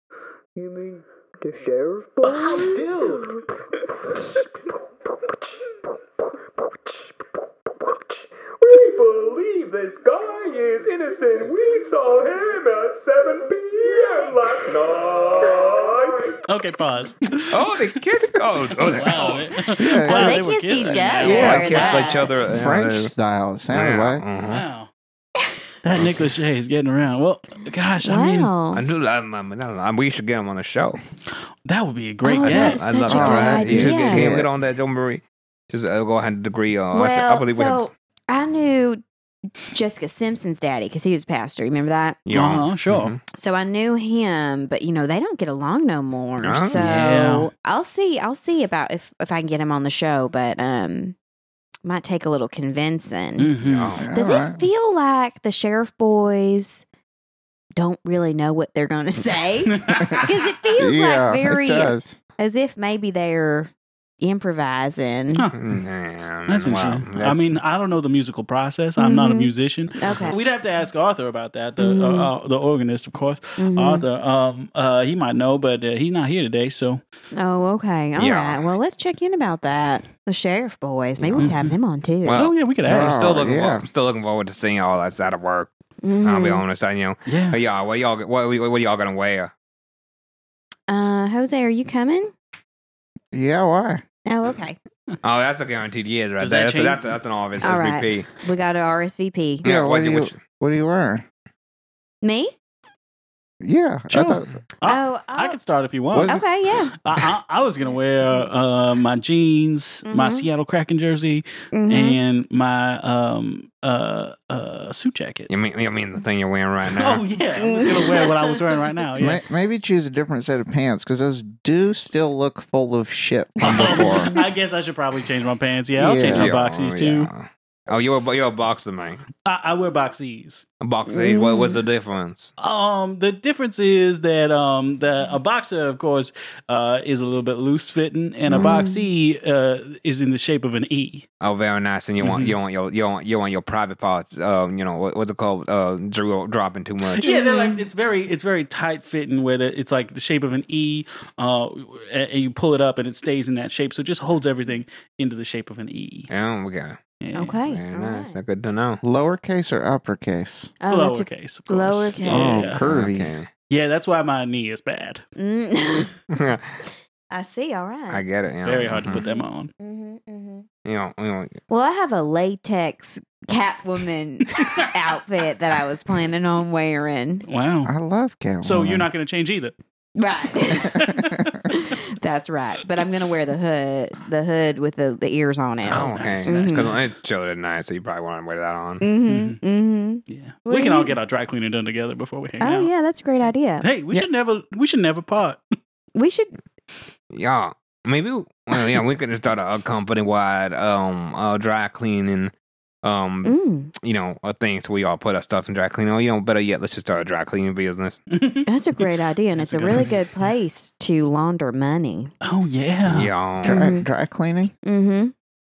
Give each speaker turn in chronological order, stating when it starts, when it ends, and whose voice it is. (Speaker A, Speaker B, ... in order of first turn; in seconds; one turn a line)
Speaker A: 0.5-4.5
Speaker B: 2.2-3.3
Speaker C: 8.6-16.4
Speaker A: 15.4-15.9
Speaker B: 16.4-17.6
Speaker D: 17.5-19.5
Speaker B: 18.8-22.0
Speaker E: 19.7-20.4
Speaker F: 20.0-22.3
Speaker D: 21.2-23.1
Speaker E: 21.2-24.2
Speaker D: 23.7-24.6
Speaker B: 24.5-24.9
Speaker B: 25.8-28.5
Speaker D: 25.9-26.2
Speaker F: 28.0-28.8
Speaker D: 28.7-31.0
Speaker B: 31.6-32.8
Speaker F: 32.2-34.4
Speaker D: 32.4-37.9
Speaker E: 33.1-34.5
Speaker F: 36.9-39.0
Speaker F: 39.6-42.2
Speaker D: 42.2-43.2
Speaker B: 42.3-43.1
Speaker F: 43.3-51.1
Speaker D: 46.4-46.9
Speaker B: 46.8-47.5
Speaker F: 51.8-53.5
Speaker B: 53.4-54.0
Speaker D: 53.6-54.1
Speaker E: 54.0-54.7
Speaker F: 54.1-56.8
Speaker F: 57.8-65.5
Speaker B: 59.8-60.3
Speaker E: 60.8-62.2
Speaker B: 65.3-65.8
Speaker D: 65.5-67.6
Speaker B: 66.5-77.0
Speaker F: 69.0-70.4
Speaker D: 70.0-70.3
Speaker F: 71.8-72.3
Speaker F: 73.6-74.0
Speaker F: 77.3-82.4
Speaker D: 78.2-78.7
Speaker D: 81.2-81.5
Speaker B: 81.4-81.8
Speaker D: 82.2-85.7
Speaker B: 82.3-83.2
Speaker E: 82.8-83.8
Speaker F: 86.0-86.6
Speaker D: 86.2-89.5
Speaker B: 87.2-87.6
Speaker F: 90.9-92.3
Speaker E: 93.3-94.0
Speaker F: 94.2-94.8
Speaker D: 95.2-98.3
Speaker B: 96.4-97.2
Speaker F: 97.6-99.6
Speaker D: 99.6-100.4
Speaker E: 99.6-101.2
Speaker F: 102.2-102.5
Speaker E: 103.6-104.6
Speaker B: 104.1-106.4
Speaker F: 104.8-105.6
Speaker E: 106.1-106.4
Speaker F: 106.2-107.0
Speaker B: 107.0-115.5
Speaker F: 110.0-110.5
Speaker F: 111.7-112.2
Speaker D: 115.5-117.4
Speaker B: 117.0-119.4
Speaker F: 117.6-118.5
Speaker E: 119.2-124.4
Speaker B: 123.6-127.3
Speaker F: 123.7-124.0
Speaker E: 126.0-126.5
Speaker D: 126.3-129.2
Speaker B: 129.4-130.6
Speaker D: 130.8-132.5
Speaker F: 131.1-131.8
Speaker B: 132.6-141.2
Speaker F: 138.5-139.0
Speaker D: 141.4-147.3
Speaker B: 142.2-142.6
Speaker B: 147.1-156.3
Speaker F: 147.2-147.9
Speaker D: 156.3-157.0
Speaker B: 157.2-157.6
Speaker F: 157.3-158.4
Speaker D: 157.6-159.0
Speaker E: 159.0-160.7
Speaker F: 160.8-163.0
Speaker B: 160.9-162.9
Speaker E: 162.2-163.3
Speaker D: 162.8-163.5
Speaker B: 163.7-165.2
Speaker F: 165.3-166.1
Speaker D: 166.3-166.8
Speaker F: 167.3-168.2
Speaker D: 168.1-169.2
Speaker B: 168.6-169.7
Speaker F: 169.1-170.7
Speaker D: 170.8-171.6
Speaker F: 171.7-177.5
Speaker B: 177.4-177.9
Speaker E: 177.8-179.1
Speaker B: 178.6-179.7
Speaker F: 180.2-186.9
Speaker E: 180.7-181.7
Speaker D: 185.8-189.1
Speaker B: 185.9-187.1
Speaker F: 189.0-191.2
Speaker B: 189.2-189.6
Speaker B: 190.3-192.9
Speaker F: 192.6-193.9
Speaker B: 193.8-195.6
Speaker F: 196.1-196.6
Speaker D: 197.3-208.2
Speaker F: 203.4-203.9
Speaker B: 208.3-208.6
Speaker F: 208.7-212.3
Speaker B: 209.5-210.1
Speaker B: 212.4-213.3
Speaker D: 213.1-213.8
Speaker E: 213.6-214.7
Speaker F: 213.7-214.1
Speaker F: 214.8-215.3